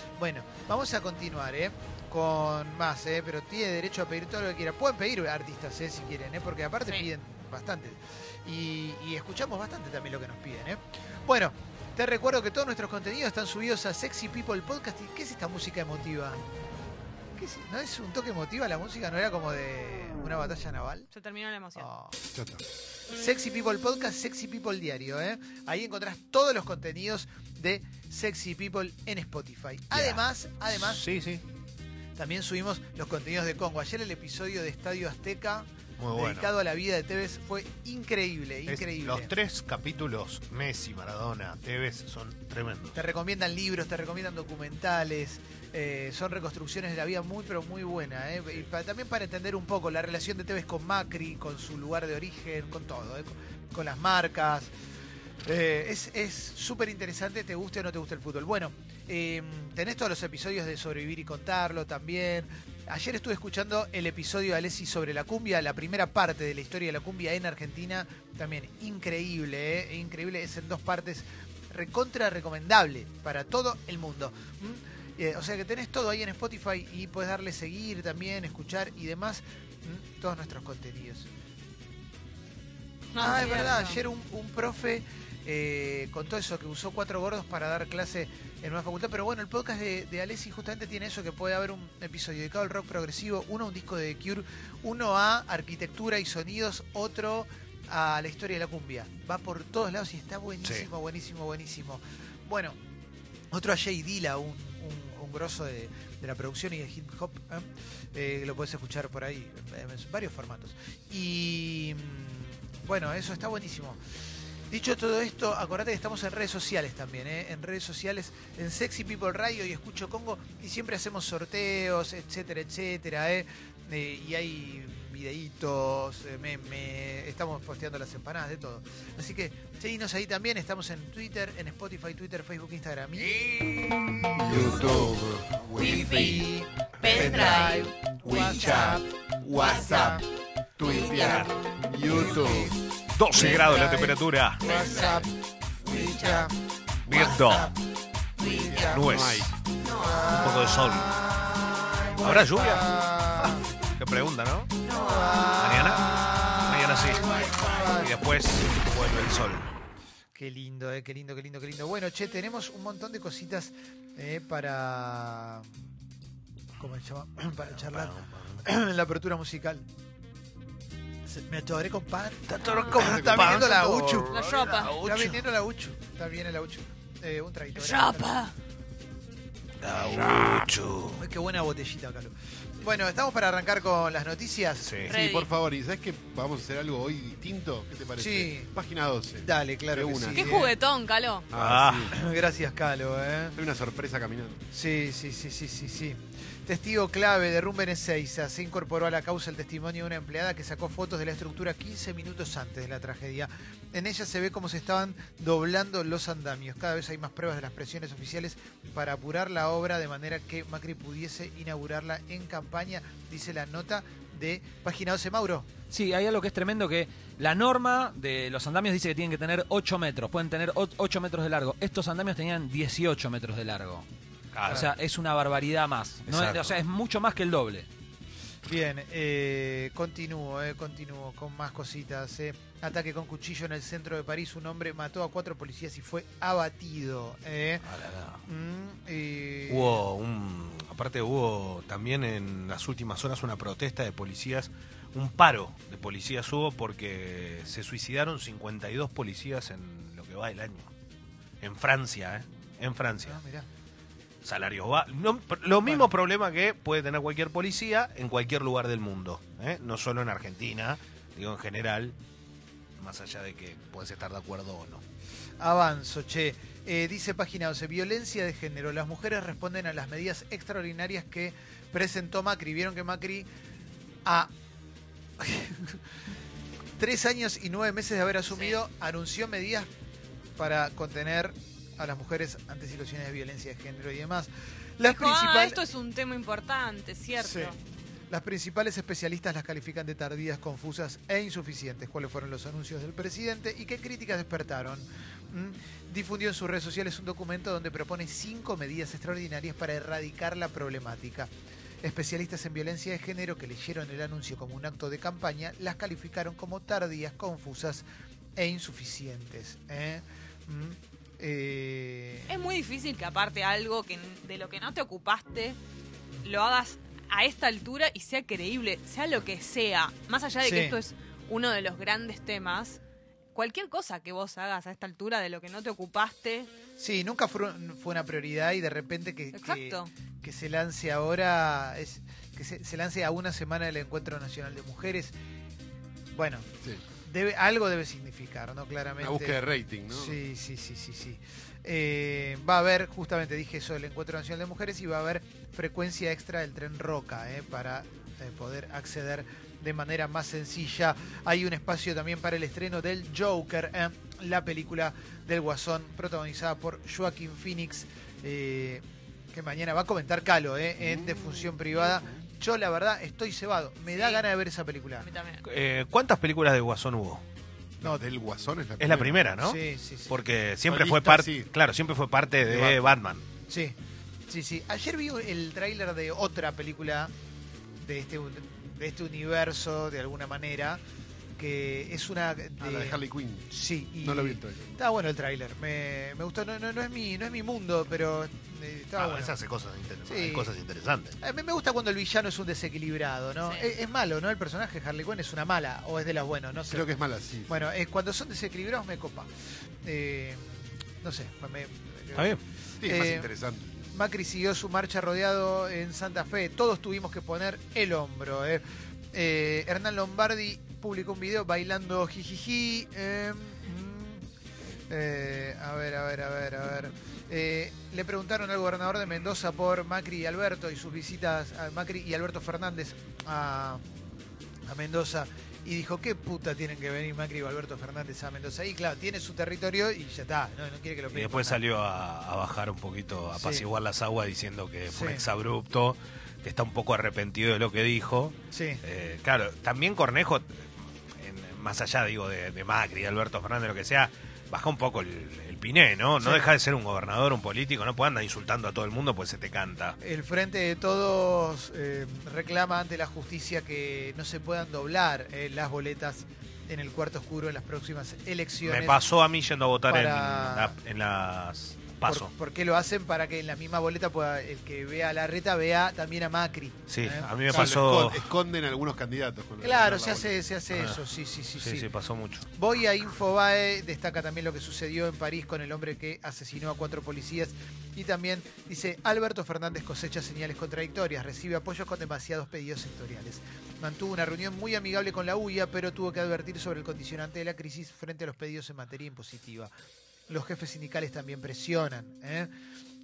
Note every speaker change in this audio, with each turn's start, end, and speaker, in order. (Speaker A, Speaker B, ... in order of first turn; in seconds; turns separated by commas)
Speaker A: 0.2-16.4, Speaker A: 17.4-21.1, Speaker B: 21.1-21.9, Speaker A: 21.8-22.2, Speaker C: 22.3-22.6, Speaker A: 23.1-31.1, Speaker D: 29.9-31.4, Speaker A: 32.1-39.3, Speaker D: 36.0-36.5, Speaker D: 38.7-43.0, Speaker A: 42.9-54.7, Speaker A: 55.4-81.3, Speaker B: 83.1-84.0, Speaker A: 83.2-102.8, Speaker A: 103.5-114.0, Speaker A: 114.7-133.5, Speaker D: 133.2-134.3, Speaker C: 134.4-136.4, Speaker A: 135.8-140.2, Speaker C: 137.0-140.2, Speaker B: 137.0-137.7, Speaker C: 140.8-142.8, Speaker D: 141.2-141.5, Speaker A: 142.2-142.8, Speaker D: 143.2-144.8, Speaker A: 143.3-145.3, Speaker B: 144.7-145.1, Speaker A: 145.8-146.5, Speaker B: 145.9-146.4, Speaker D: 147.1-147.7, Speaker C: 147.1-147.3, Speaker A: 147.2-147.7, Speaker A: 148.4-149.1, Speaker C: 148.4-149.5, Speaker D: 148.7-149.5, Speaker A: 149.9-153.7, Speaker D: 150.2-151.2, Speaker D: 152.2-154.7, Speaker B: 154.9-155.4, Speaker A: 154.9-158.1, Speaker D: 155.6-156.1, Speaker D: 156.6-159.7, Speaker A: 160.3-165.7, Speaker A: 166.8-169.8, Speaker D: 167.6-168.6, Speaker A: 171.2-178.4, Speaker D: 172.5-175.4, Speaker B: 172.6-172.9, Speaker C: 172.9-173.7, Speaker B: 174.3-174.9, Speaker B: 177.8-178.5, Speaker D: 179.8-181.2, Speaker A: 181.2-185.0, Speaker D: 184.8-185.1, Speaker B: 185.1-185.5, Speaker C: 185.1-190.6, Speaker A: 188.2-188.7, Speaker A: 189.4-190.7, Speaker B: 190.3-191.4, Speaker C: 191.5-192.2, Speaker D: 191.5-192.1, Speaker A: 192.1-193.6, Speaker C: 193.6-194.6, Speaker A: 194.7-215.7, Speaker E: 215.9-224.1, Speaker D: 224.5-224.9, Speaker E: 224.7-227.9, Speaker D: 226.2-226.8, Speaker A: 228.7-237.9, Speaker D: 237.8-238.4, Speaker A: 238.4-240.0, Speaker D: 239.7-250.9, Speaker D: 251.6-253.4, Speaker A: 253.2-253.7, Speaker D: 254.4-262.1, Speaker A: 255.8-256.1, Speaker D: 263.0-265.0, Speaker A: 265.6-273.5, Speaker A: 274.2-274.5, Speaker A: 275.4-276.0, Speaker A: 277.0-279.9, Speaker B: 278.5-278.8, Speaker A: 280.6-285.8, Speaker B: 285.1-287.8, Speaker A: 287.4-287.7, Speaker A: 288.3-301.5, Speaker A: 302.0-308.0, Speaker A: 308.6-312.5, Speaker B: 312.5-315.8, Speaker B: 316.4-323.0, Speaker A: 320.6-321.0, Speaker B: 323.5-326.7, Speaker A: 327.0-335.3, Speaker B: 329.5-330.1, Speaker A: 336.3-336.7, Speaker A: 337.2-365.3, Speaker C: 339.2-340.4, Speaker C: 361.0-362.4, Speaker B: 364.1-364.4, Speaker B: 365.2-365.6, Speaker D: 365.6-367.4, Speaker C: 368.0-369.5, Speaker D: 369.0-373.4, Speaker A: 369.6-370.3, Speaker C: 370.9-371.7, Speaker C: 372.6-373.1, Speaker A: 373.7-374.0, Speaker A: 374.5-377.3, Speaker A: 378.0-381.0, Speaker A: 381.6-389.6, Speaker C: 382.8-383.7, Speaker C: 384.2-384.9, Speaker D: 389.1-391.4, Speaker A: 390.2-390.7, Speaker A: 391.4-397.1, Speaker B: 393.6-393.9, Speaker C: 396.9-397.9, Speaker A: 397.7-399.5, Speaker A: 400.0-403.5, Speaker D: 402.3-402.6, Speaker C: 403.0-404.1, Speaker A: 404.1-414.4, Speaker A: 415.1-424.0, Speaker A: 424.9-431.8, Speaker D: 431.3-450.2, Speaker A: 433.5-433.9, Speaker A: 435.1-435.5, Speaker A: 438.7-439.0, Speaker A: 446.4-446.7, Speaker A: 450.2-459.2, Speaker D: 458.8-462.5, Speaker A: 460.1-460.9, Speaker A: 462.2-467.9, Speaker D: 467.1-468.5, Speaker C: 467.7-470.6, Speaker A: 469.8-472.1, Speaker D: 470.9-471.2, Speaker D: 471.8-472.7, Speaker A: 472.7-489.9, Speaker A: 490.5-492.7